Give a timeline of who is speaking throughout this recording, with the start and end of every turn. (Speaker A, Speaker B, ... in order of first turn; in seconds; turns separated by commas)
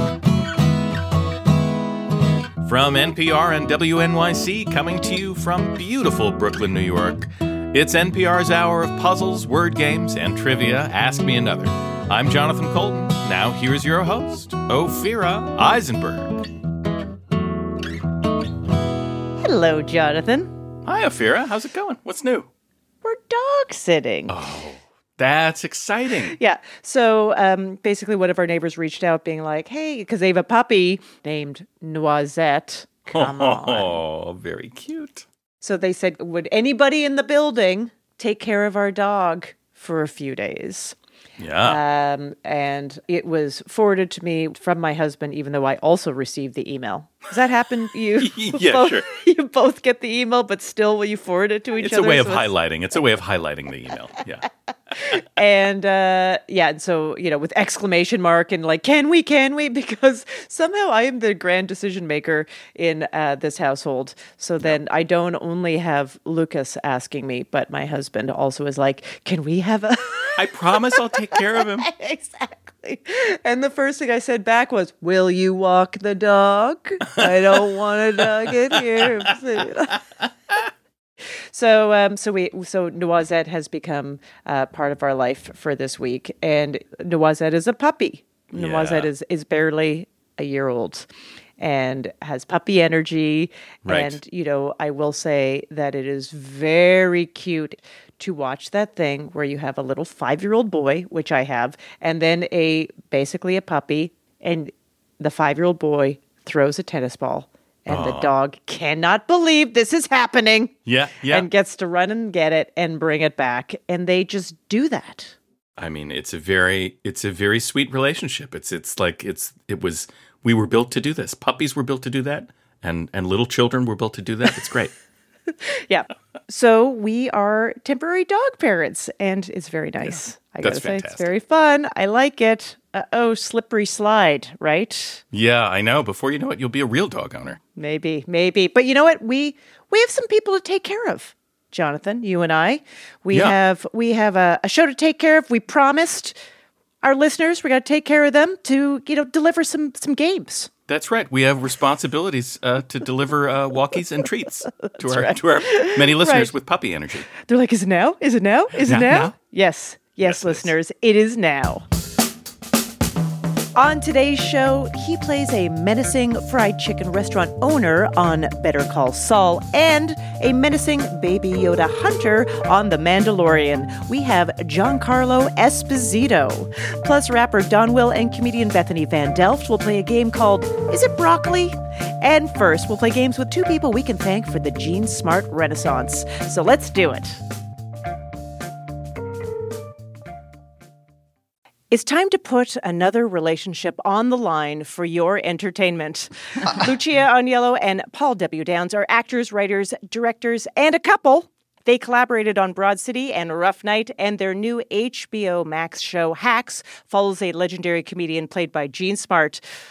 Speaker A: 2.6-16.4, Speaker B: 19.4-20.5, Speaker A: 20.9-22.5, Speaker B: 23.0-24.3, Speaker A: 24.3-26.4, Speaker B: 26.3-34.0, Speaker A: 33.1-35.2, Speaker B: 35.6-41.0, Speaker A: 41.4-41.8, Speaker B: 41.6-52.5, Speaker A: 48.2-49.0, Speaker A: 51.8-54.5, Speaker B: 55.1-70.4, Speaker A: 70.4-71.9, Speaker B: 71.0-80.0, Speaker B: 81.5-91.1, Speaker A: 88.5-89.1, Speaker B: 91.6-110.7, Speaker A: 93.8-94.2, Speaker A: 107.9-108.3, Speaker A: 110.9-111.5, Speaker B: 111.3-115.3, Speaker A: 115.8-124.9, Speaker B: 125.9-135.2, Speaker A: 130.1-131.3, Speaker A: 135.3-137.6, Speaker B: 137.8-146.4, Speaker A: 143.3-143.6, Speaker B: 147.0-150.7, Speaker A: 150.9-157.3, Speaker B: 154.9-156.5, Speaker B: 157.4-161.8, Speaker A: 158.8-159.3, Speaker A: 160.2-160.7, Speaker B: 163.8-187.4, Speaker B: 191.9-209.6